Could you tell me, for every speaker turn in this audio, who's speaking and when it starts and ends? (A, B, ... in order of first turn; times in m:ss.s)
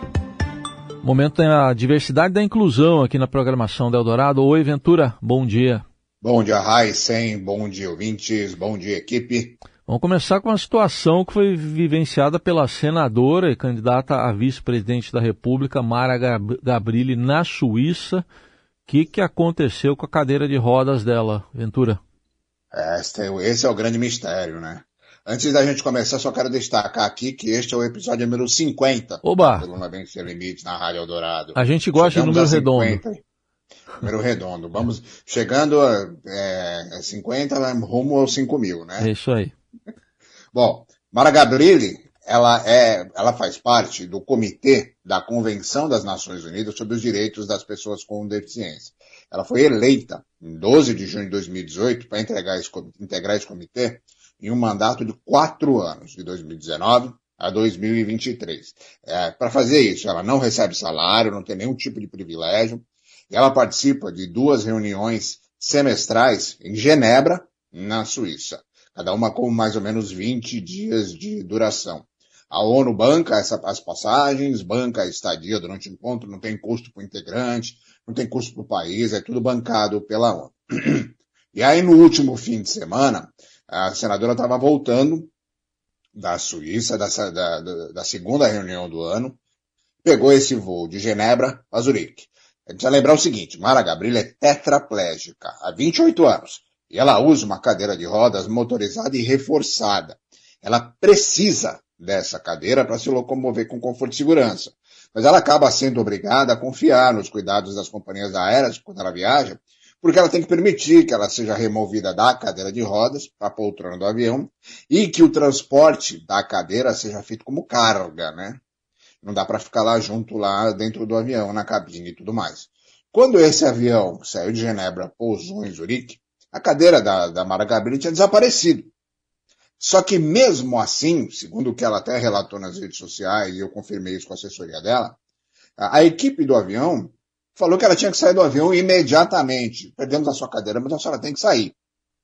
0:01.0-0:05.8 A
0:06.2-0:09.6 B
0:09.8-0:18.2 A
0:18.9-0:22.0 A
0:22.7-0:33.2 B
0:29.2-0:29.6 A
0:31.5-0:33.0 A
0:34.0-0:39.1 B
0:39.0-0:39.5 A
0:40.5-1:25.3 B
1:26.1-1:29.4 B
1:30.0-1:58.6 B
1:59.2-2:08.9 B
2:09.8-2:15.2 B
2:15.8-2:21.7 B